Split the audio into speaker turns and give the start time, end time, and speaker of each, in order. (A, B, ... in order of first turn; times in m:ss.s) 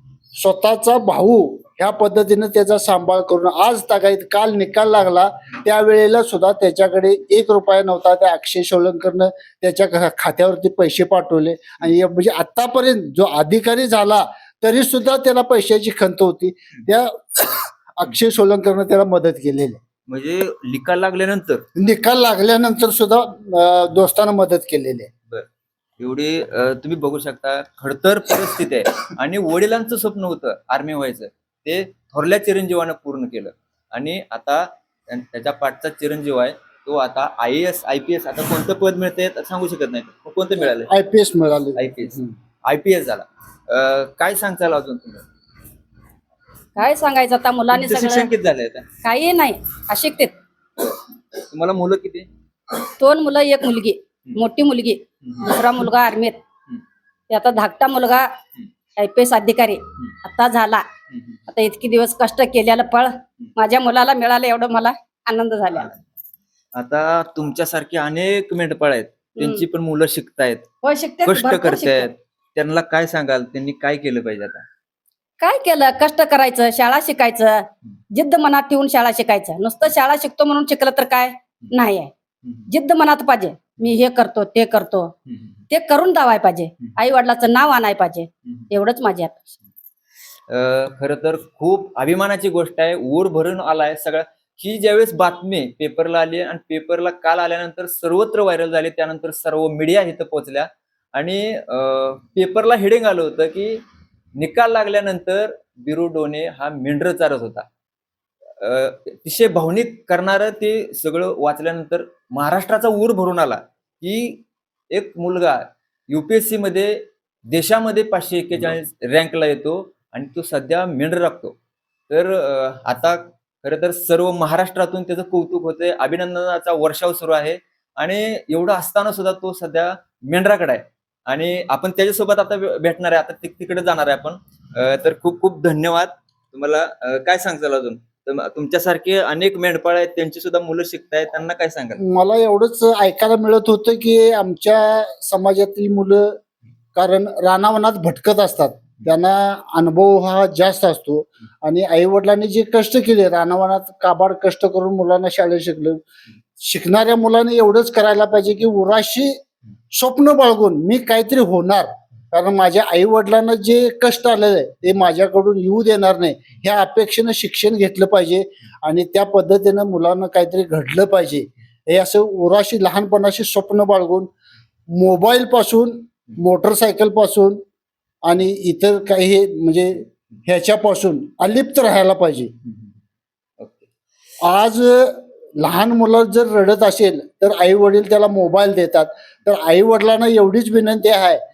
0:00.4-0:19.8 A
0:20.1-0:21.6 B
0:21.8-0:25.1 A
0:26.0-0:40.9 B
0:40.8-0:42.3 A
0:41.8-0:45.2 B
0:46.8-0:48.3 C
0:47.7-0:48.9 B
0:49.0-0:50.3 C
0:51.4-0:52.3 B
0:53.0-0:56.4 C
0:55.2-0:55.5 B
0:57.3-0:58.3 C
0:59.0-1:00.8 C
1:01.5-1:05.9 C
1:06.8-1:10.7 B
1:10.8-1:12.1 C
1:11.2-1:14.6 B
1:15.4-1:22.1 C
1:22.7-1:25.1 C
1:25.7-1:29.4 C
1:30.5-1:43.8 B
1:44.4-1:47.6 B
1:48.6-1:57.0 B
1:57.5-2:01.5 B
2:02.1-2:22.0 B
2:22.0-2:26.3 A
2:26.9-2:36.0 A
2:36.6-2:39.4 A
2:39.9-2:54.3 A
2:54.9-2:57.6 A
2:58.2-3:02.5 A
3:03.6-3:03.9 B
3:04.4-3:11.4 A